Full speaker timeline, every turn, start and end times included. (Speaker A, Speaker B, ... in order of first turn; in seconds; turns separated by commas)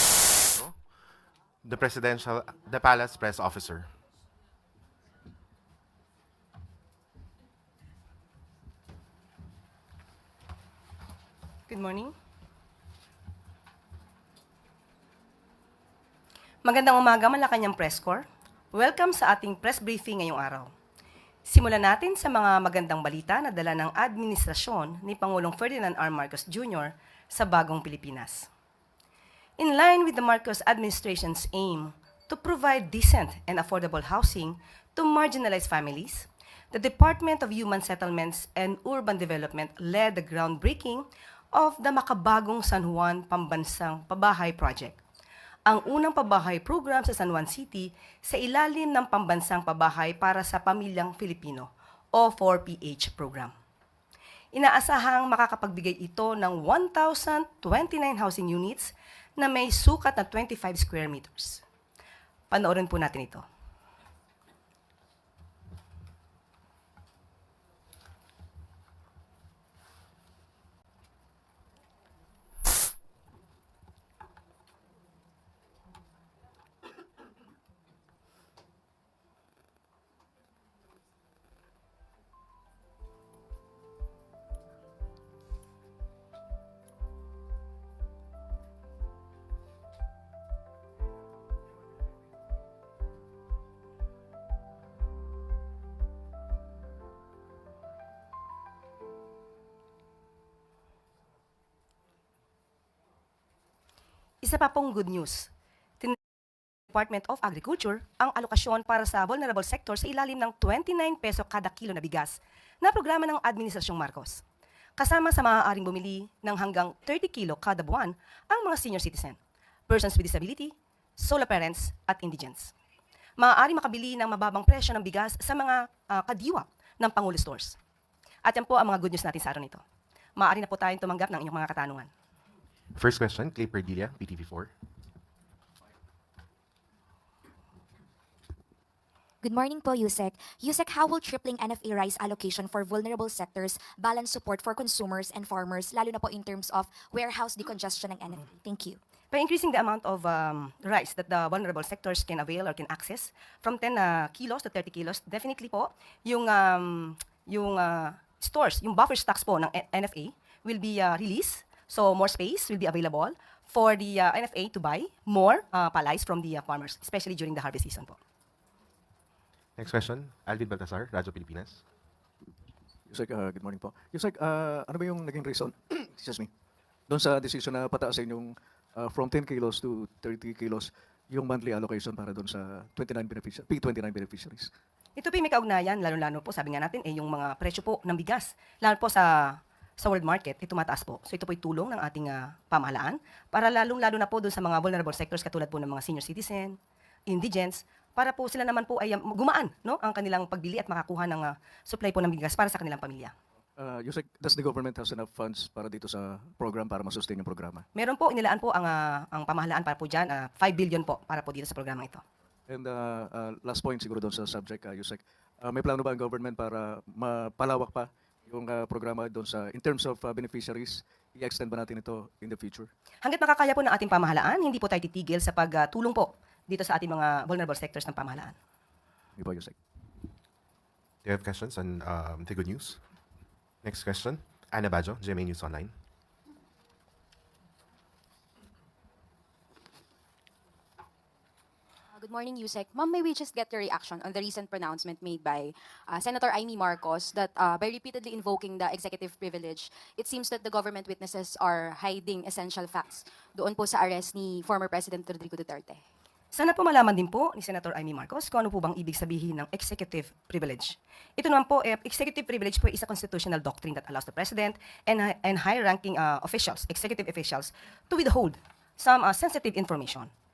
Speaker A: 0.5-0.8, Speaker A: 1.6-3.9, Speaker B: 11.7-12.1, Speaker B: 16.6-20.7, Speaker B: 21.5-28.5, Speaker B: 29.6-45.0, Speaker B: 45.7-53.5, Speaker B: 54.5-61.6, Speaker B: 62.5-63.4, Speaker B: 104.4-105.5, Speaker B: 106.9-114.4, Speaker B: 115.0-119.4, Speaker B: 119.9-122.7, Speaker B: 123.4-127.8, Speaker B: 128.4-129.8, Speaker B: 130.4-132.1, Speaker A: 132.9-134.7, Speaker C: 139.4-149.0, Speaker B: 149.3-168.2, Speaker A: 169.8-171.8, Speaker D: 173.1-176.5, Speaker D: 177.1-184.7, Speaker B: 185.2-196.8, Speaker B: 197.3-203.3, Speaker D: 203.8-207.8, Speaker B: 207.9-212.2, Speaker D: 212.7-222.9, Speaker B: 223.2-228.6, Speaker D: 229.4-229.8, Speaker A: 231.2-233.0, Speaker A: 233.8-235.9, Speaker E: 242.1-256.0, Speaker B: 256.5-270.3